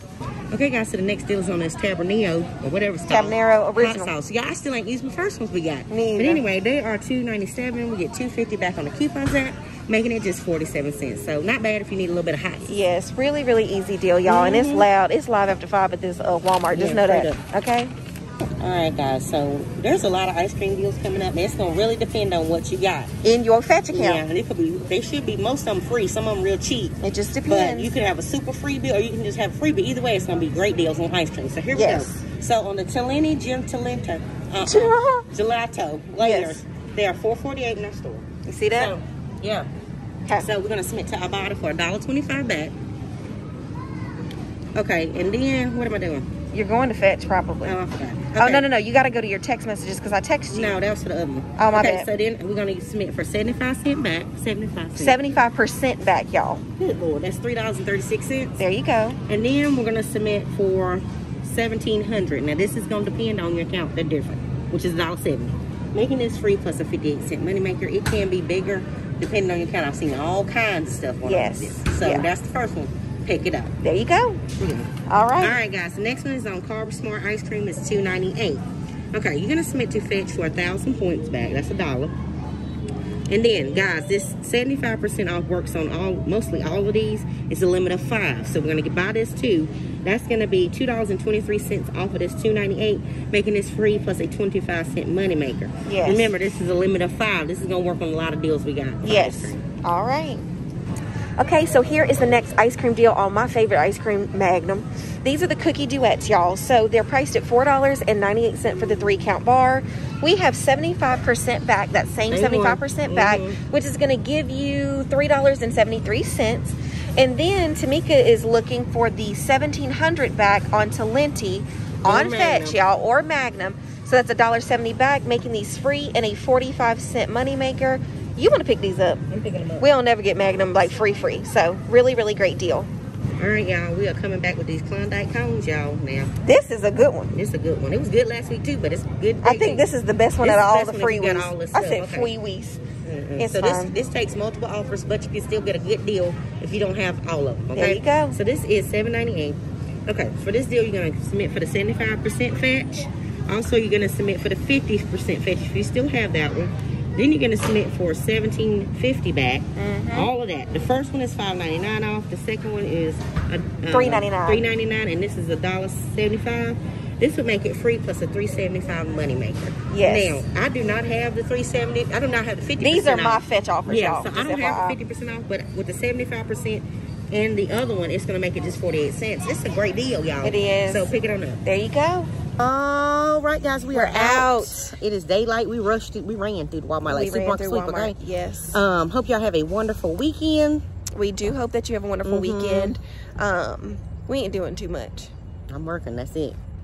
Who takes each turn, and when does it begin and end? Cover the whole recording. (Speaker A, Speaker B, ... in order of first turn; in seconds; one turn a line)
Speaker A: 0.5-12.7
Speaker B: 3.0-4.1
Speaker B: 5.9-6.4
Speaker B: 12.7-17.9
Speaker A: 14.2-14.9
Speaker A: 16.7-17.4
Speaker A: 18.6-23.1
Speaker B: 23.2-24.2
Speaker A: 23.9-39.7
Speaker B: 27.0-27.9
Speaker B: 31.7-32.2
Speaker B: 34.6-35.3
Speaker B: 36.2-36.6
Speaker B: 38.5-38.9
Speaker A: 40.4-42.7
Speaker A: 44.7-46.3
Speaker B: 46.5-47.8
Speaker A: 47.6-48.7
Speaker B: 48.3-50.8
Speaker A: 50.5-55.2
Speaker B: 51.5-52.1
Speaker B: 55.0-56.6
Speaker A: 56.8-58.6
Speaker B: 58.6-59.2
Speaker A: 59.3-73.7
Speaker B: 71.2-72.3
Speaker B: 73.8-74.4
Speaker A: 74.6-82.1
Speaker B: 75.0-75.6
Speaker A: 83.3-99.6
Speaker B: 95.8-96.3
Speaker B: 99.0-100.4
Speaker B: 101.4-129.2
Speaker A: 112.3-113.6
Speaker A: 122.0-122.8
Speaker A: 129.3-129.8
Speaker B: 129.8-132.9
Speaker A: 133.4-136.3
Speaker B: 136.4-137.3
Speaker A: 137.3-139.8
Speaker B: 139.4-142.8
Speaker A: 140.4-142.3
Speaker A: 143.0-181.6
Speaker B: 143.4-143.9
Speaker B: 147.7-148.4
Speaker B: 159.8-160.3
Speaker B: 163.9-164.6
Speaker B: 169.9-170.4
Speaker B: 172.8-175.0
Speaker B: 180.4-181.1
Speaker B: 181.6-182.3
Speaker A: 182.6-188.2
Speaker B: 183.9-184.9
Speaker B: 187.1-188.8
Speaker A: 188.7-190.8
Speaker B: 191.2-195.3
Speaker A: 192.2-192.9
Speaker A: 195.7-196.6